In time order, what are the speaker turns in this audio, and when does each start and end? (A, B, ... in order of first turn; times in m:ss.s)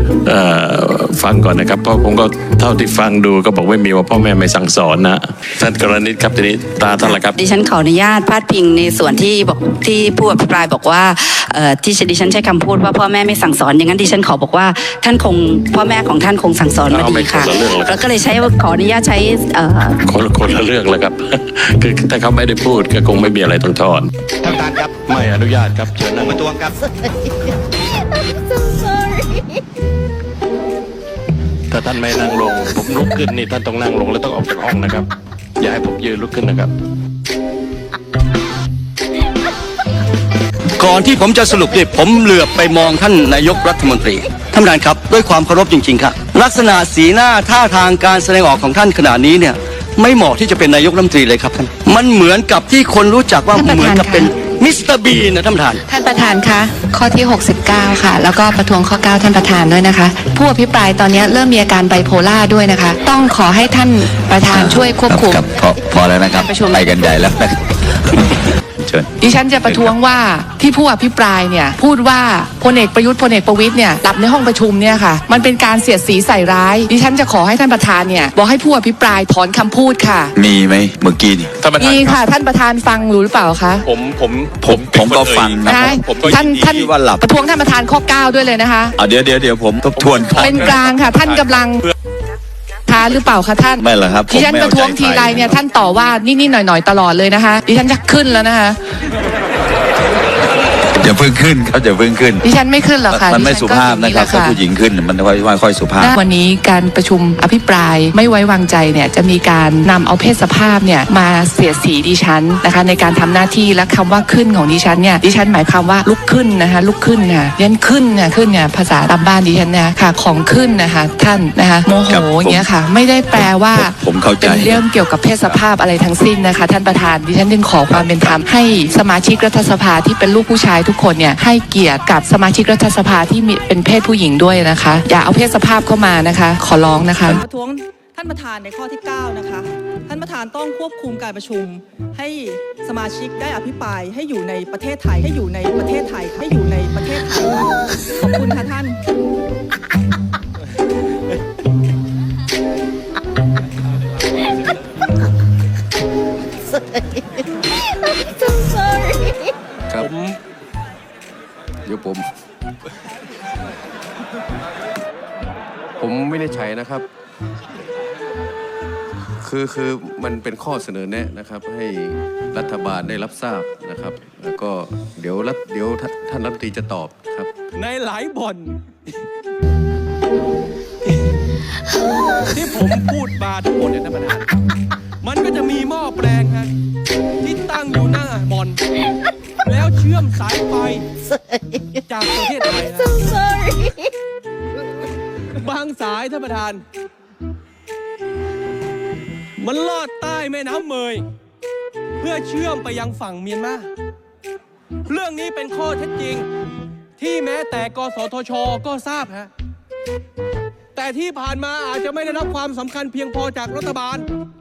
0:00.2-0:07.4 A
0:07.0-0:20.0 B
0:16.8-0:18.0 A
0:20.0-0:26.6 A
0:31.7-0:35.0 A
0:35.6-0:36.7 A
0:40.8-0:55.8 C
0:53.5-0:54.3 D
0:55.9-1:05.4 D
1:04.5-1:07.6 E
1:06.3-1:07.1 D
1:08.2-1:09.1 E
1:09.2-1:20.3 D
1:09.6-1:09.9 E
1:20.3-1:21.5 E
1:21.8-1:23.9 D
1:23.9-1:26.6 F
1:24.6-1:27.3 E
1:25.6-1:29.0 D
1:29.0-1:30.8 E
1:30.0-1:30.6 F
1:30.3-1:31.9 D
1:32.9-1:38.8 D
1:33.8-1:35.6 E
1:41.0-1:42.4 E
1:42.4-1:44.6 D
1:43.1-1:46.2 E
1:46.0-2:17.4 D
2:02.1-2:02.7 E
2:03.7-2:04.8 E
2:08.1-2:08.4 E
2:17.4-2:29.0 G
2:39.9-2:40.2 H
2:41.8-2:42.3 H
2:46.0-2:47.0 H
2:49.4-2:57.5 H
2:57.8-2:58.8 I
3:02.5-3:04.4 I
3:05.2-3:06.7 I
3:07.4-3:08.8 I
3:09.6-3:11.0 I
3:12.1-3:13.1 I
3:15.6-3:16.8 I
3:19.6-3:21.2 I
3:22.2-3:23.8 I
3:25.1-3:26.4 I
3:27.2-3:29.5 I
3:30.9-3:34.2 I